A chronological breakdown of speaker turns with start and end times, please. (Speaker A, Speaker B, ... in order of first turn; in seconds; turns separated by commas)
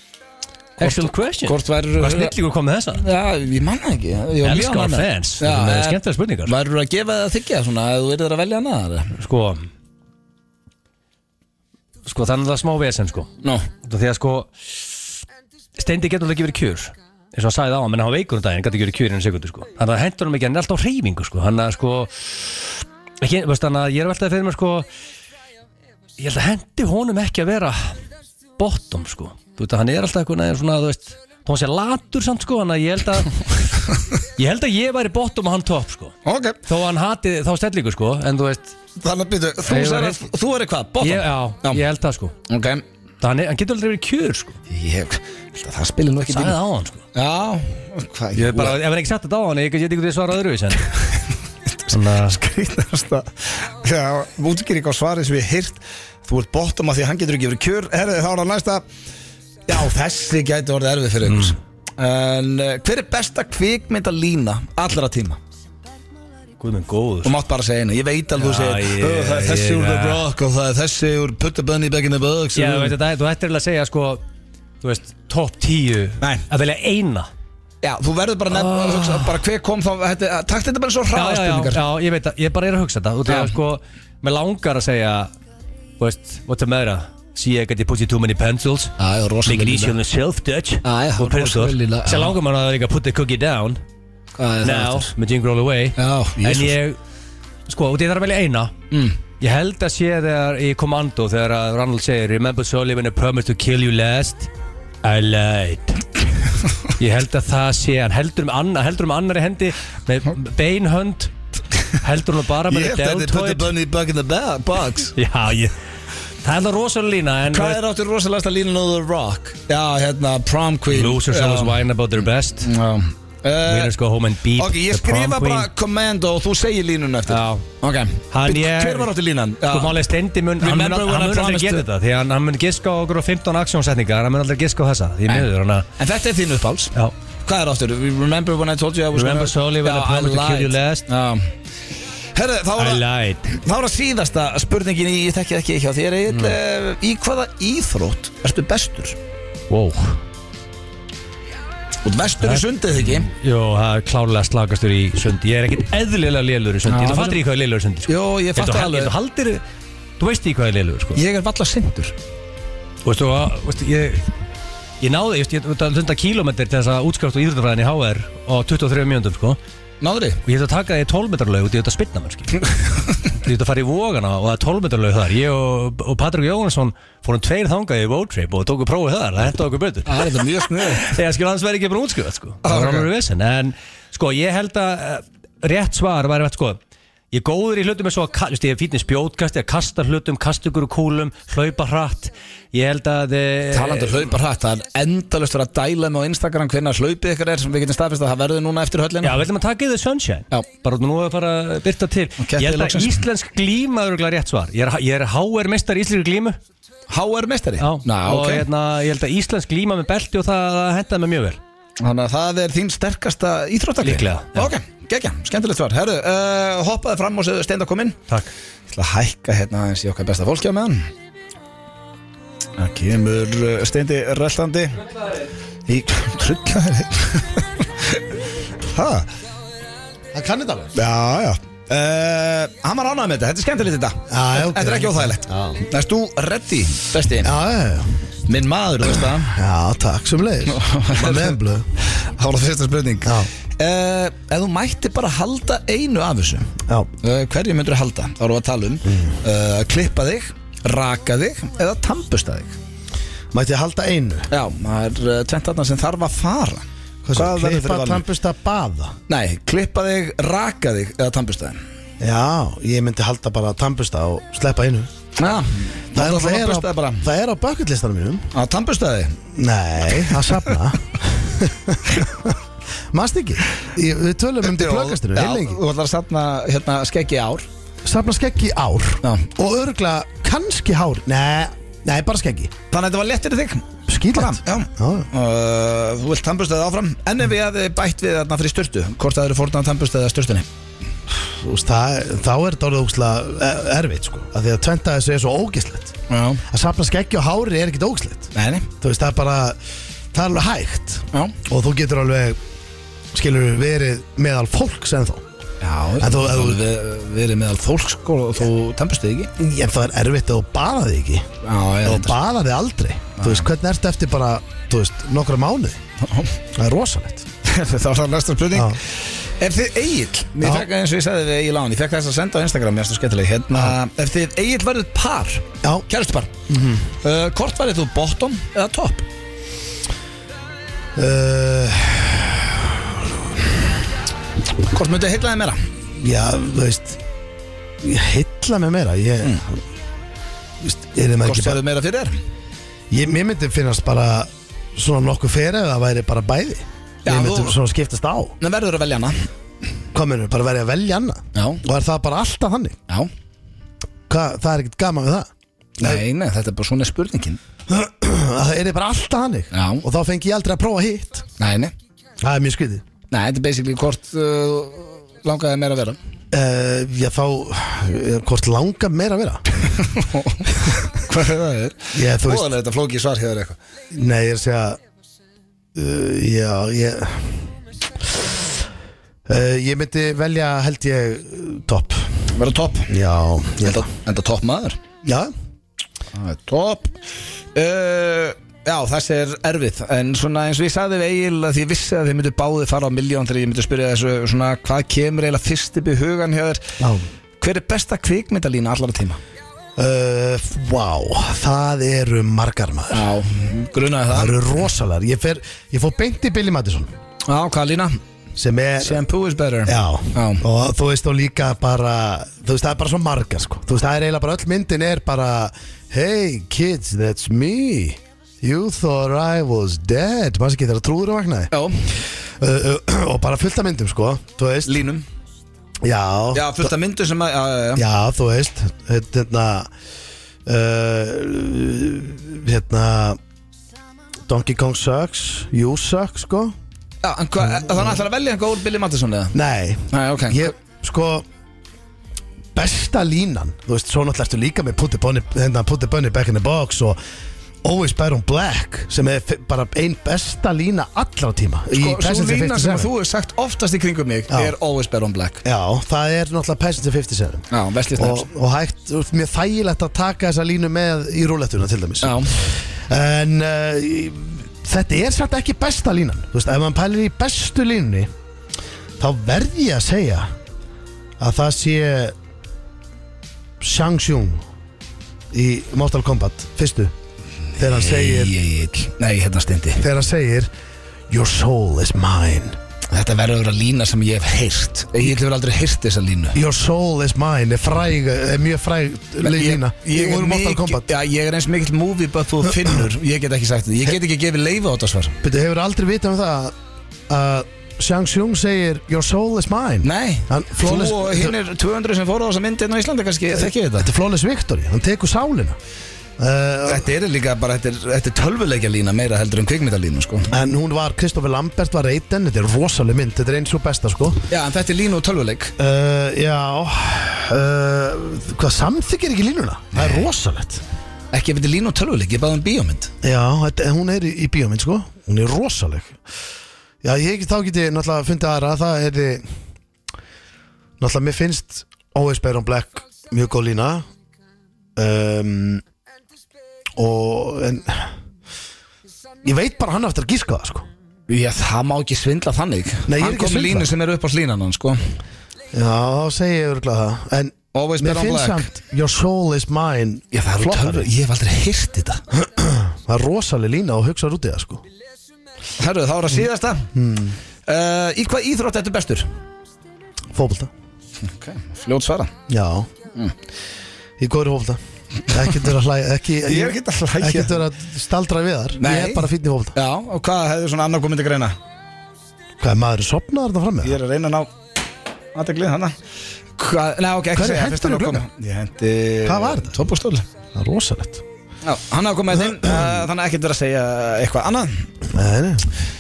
Speaker A: 0.8-2.3, Speaker B: 0.8-3.0, Speaker A: 3.0-9.2, Speaker B: 4.4-6.5, Speaker B: 9.2-9.7, Speaker B: 12.1-14.5, Speaker B: 15.8-22.6, Speaker B: 23.2-24.9, Speaker B: 26.2-27.9, Speaker B: 28.6-33.4, Speaker B: 34.4-36.1, Speaker A: 36.2-36.6, Speaker B: 36.6-38.8, Speaker A: 39.0-41.8, Speaker B: 39.7-40.3, Speaker B: 41.0-42.3, Speaker A: 42.5-42.8, Speaker B: 43.2-44.6, Speaker A: 44.7-46.6, Speaker B: 46.3-47.0, Speaker A: 47.1-48.8, Speaker B: 48.3-50.9, Speaker A: 51.8-58.8, Speaker B: 51.9-52.4, Speaker A: 59.7-65.4, Speaker B: 61.3-61.5, Speaker B: 66.6-67.3, Speaker A: 67.2-73.0, Speaker B: 68.4-70.3, Speaker B: 72.5-74.2, Speaker B: 74.8-77.3, Speaker A: 77.8-81.8, Speaker B: 78.5-79.3, Speaker B: 81.1-85.3, Speaker A: 83.3-83.5, Speaker B: 86.0-88.9, Speaker A: 89.0-90.0, Speaker B: 89.5-93.8, Speaker A: 90.8-92.4, Speaker A: 94.3-95.1, Speaker B: 94.6-97.0, Speaker A: 96.0-96.8, Speaker B: 97.7-98.7, Speaker A: 98.9-99.2, Speaker B: 99.4-104.5, Speaker B: 105.0-106.1, Speaker B: 107.0-111.3, Speaker B: 112.0-113.7, Speaker A: 112.7-115.2, Speaker B: 115.2-115.7, Speaker B: 116.4-117.8, Speaker A: 117.5-121.8, Speaker B: 120.9-122.7, Speaker A: 122.6-123.9, Speaker B: 123.7-125.7, Speaker A: 124.6-130.0, Speaker B: 127.3-127.7, Speaker B: 128.3-129.1, Speaker B: 129.7-135.9, Speaker A: 130.6-131.8, Speaker A: 136.0-136.9, Speaker A: 137.4-141.5, Speaker B: 139.1-141.1, Speaker A: 142.3-149.2, Speaker B: 142.8-143.5, Speaker B: 146.3-146.6, Speaker B: 149.7-150.2, Speaker A: 152.1-153.3, Speaker B: 152.4-159.6, Speaker A: 156.9-157.4, Speaker A: 158.1-159.1, Speaker B: 160.2-161.2, Speaker A: 161.2-162.2, Speaker B: 163.0-164.3, Speaker B: 165.0-169.6, Speaker A: 170.0-170.4, Speaker B: 170.4-172.7, Speaker B: 173.3-180.4, Speaker A: 180.1-181.2, Speaker B: 180.9-186.8, Speaker A: 182.6-183.1, Speaker B: 187.3-194.3, Speaker A: 193.7-199.4, Speaker B: 199.2-206.6, Speaker A: 202.4-203.2, Speaker A: 207.1-208.7, Speaker B: 207.8-211.6, Speaker A: 212.0-218.2, Speaker B: 214.0-214.7, Speaker A: 218.9-221.1, Speaker A: 222.8-225.1, Speaker A: 225.9-228.2, Speaker A: 228.9-229.3, Speaker C: 230.3-230.9, Speaker A: 230.9-237.5, Speaker C: 234.3-235.8, Speaker C: 237.4-238.2, Speaker A: 238.5-239.6, Speaker C: 239.5-241.9, Speaker A: 240.7-252.8, Speaker C: 243.2-243.5, Speaker C: 249.1-249.3, Speaker C: 253.5-254.5, Speaker A: 254.5-256.8, Speaker C: 257.2-259.1, Speaker A: 257.4-258.2, Speaker A: 259.3-261.8, Speaker C: 262.2-265.1, Speaker A: 265.4-267.2, Speaker C: 266.1-268.5, Speaker A: 268.5-269.4, Speaker C: 269.5-272.6, Speaker A: 270.2-270.6, Speaker C: 273.1-275.8, Speaker A: 274.6-277.7, Speaker C: 278.1-282.7, Speaker A: 282.9-290.7, Speaker C: 284.1-285.3, Speaker C: 291.4-296.2, Speaker A: 296.3-296.6, Speaker C: 296.7-299.8, Speaker A: 298.6-298.9, Speaker C: 300.3-302.6, Speaker C: 303.3-305.4, Speaker A: 305.8-309.5, Speaker C: 306.2-306.9, Speaker C: 309.6-311.5, Speaker A: 311.6-312.4, Speaker C: 312.0-316.0, Speaker A: 313.4-313.7, Speaker A: 316.2-316.5, Speaker C: 316.7-317.5, Speaker A: 317.6-326.5, Speaker C: 318.7-319.0, Speaker C: 320.6-320.9, Speaker C: 326.7-327.1, Speaker A: 327.2-329.2, Speaker C: 331.2-333.6, Speaker A: 334.9-335.8, Speaker C: 336.1-337.2, Speaker C: 338.0-339.8, Speaker C: 340.8-341.8, Speaker A: 341.4-342.4, Speaker C: 343.1-348.6, Speaker A: 347.3-347.8, Speaker A: 348.6-349.5, Speaker C: 350.1-353.0, Speaker A: 351.6-351.8, Speaker C: 354.3-355.5, Speaker A: 356.0-357.6, Speaker C: 357.9-361.5, Speaker A: 359.7-360.0, Speaker A: 361.6-361.9, Speaker C: 362.4-363.1, Speaker A: 363.3-366.2, Speaker C: 366.5-369.6, Speaker A: 370.0-373.8, Speaker C: 372.1-372.7, Speaker C: 374.1-375.0, Speaker C: 375.9-377.7, Speaker C: 378.3-378.6, Speaker C: 379.5-382.3, Speaker A: 382.5-383.1, Speaker C: 383.1-384.1, Speaker A: 383.9-385.0, Speaker C: 385.2-385.5, Speaker A: 386.3-387.2, Speaker A: 387.8-396.9, Speaker C: 397.0-397.2, Speaker A: 397.6-399.4, Speaker C: 400.0-403.3, Speaker A: 403.1-404.6, Speaker C: 404.3-407.1, Speaker A: 407.5-408.2, Speaker C: 408.6-409.2, Speaker A: 409.0-410.6, Speaker C: 409.9-425.0, Speaker A: 421.7-422.1, Speaker A: 424.9-425.2, Speaker C: 426.0-426.9, Speaker A: 426.5-428.0, Speaker C: 428.0-429.9, Speaker C: 430.7-433.4, Speaker C: 434.5-436.7, Speaker A: 437.2-439.6, Speaker C: 439.5-441.5, Speaker A: 440.1-440.7, Speaker C: 442.8-447.2, Speaker C: 447.8-453.1, Speaker A: 452.0-455.6, Speaker C: 455.6-468.3, Speaker A: 457.7-458.5, Speaker A: 462.2-462.5, Speaker C: 469.2-470.5, Speaker C: 471.4-472.4, Speaker C: 473.8-474.6, Speaker C: 475.5-477.1, Speaker A: 477.8-480.0, Speaker C: 477.8-478.6, Speaker C: 480.0-480.7, Speaker C: 481.3-482.8, Speaker A: 483.1-486.6, Speaker C: 486.5-491.1, Speaker A: 489.4-495.4, Speaker C: 495.4-496.8, Speaker C: 497.3-501.6, Speaker A: 500.0-504.1, Speaker C: 504.0-505.8, Speaker C: 506.4-507.1, Speaker A: 506.9-510.5, Speaker C: 510.5-514.4, Speaker A: 514.5-515.7, Speaker C: 515.8-520.8, Speaker A: 521.3-523.1, Speaker C: 523.2-526.2, Speaker C: 527.0-529.5, Speaker C: 531.0-534.0, Speaker C: 535.0-535.8, Speaker C: 537.0-538.1, Speaker C: 539.4-540.9, Speaker A: 541.3-545.0, Speaker C: 543.1-543.9, Speaker C: 545.7-551.1, Speaker A: 547.7-548.7, Speaker A: 550.3-552.2, Speaker C: 552.4-554.8, Speaker A: 555.8-556.9, Speaker C: 556.9-557.4, Speaker A: 557.7-559.3, Speaker C: 560.3-560.7, Speaker A: 561.2-562.3, Speaker C: 562.5-562.9, Speaker C: 564.2-569.7, Speaker A: 566.5-567.7, Speaker A: 568.8-571.6, Speaker C: 572.6-574.0, Speaker A: 573.8-574.5, Speaker A: 575.3-576.0, Speaker A: 576.6-580.2, Speaker C: 577.3-578.2, Speaker C: 579.2-579.8, Speaker C: 580.5-581.2, Speaker A: 581.6-584.9, Speaker C: 582.5-582.9, Speaker C: 585.1-585.7